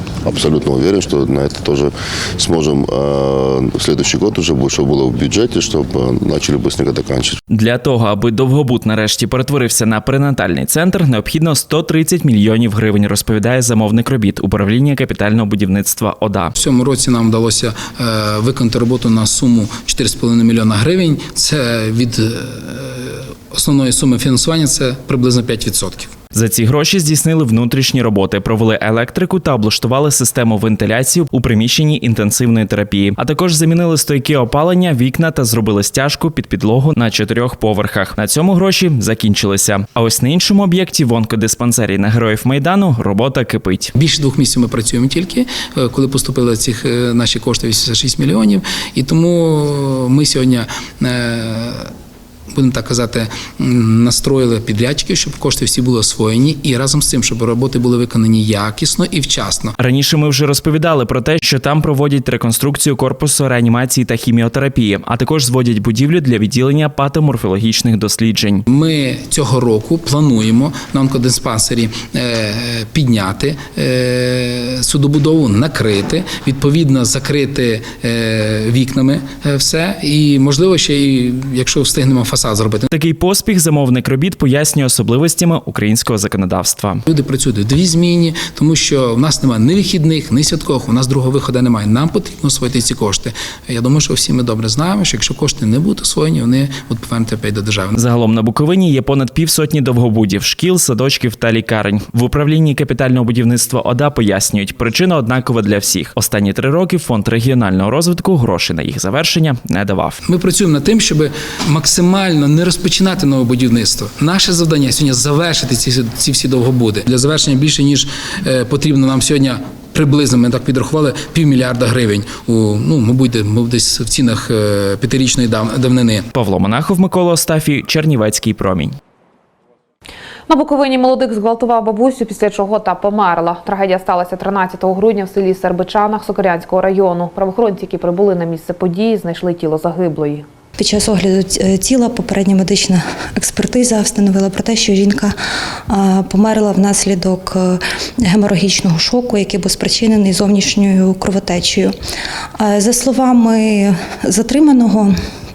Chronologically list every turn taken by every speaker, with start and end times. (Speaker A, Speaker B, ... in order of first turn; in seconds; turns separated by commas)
Speaker A: 0.2-7.4, Speaker B: 7.5-16.5, Speaker C: 16.6-26.1, Speaker B: 26.3-43.9, Speaker C: 43.9-51.9, Speaker C: 52.5-59.7, Speaker B: 59.8-68.6, Speaker C: 68.7-82.9, Speaker B: 82.9-87.0, Speaker C: 87.0-97.9, Speaker B: 97.9-110.2, Speaker C: 110.2-126.2, Speaker B: 126.3-128.9, Speaker D: 130.5-140.4, Speaker E: 140.8-145.3, Speaker E: 145.9-151.9, Speaker E: 152.6-155.2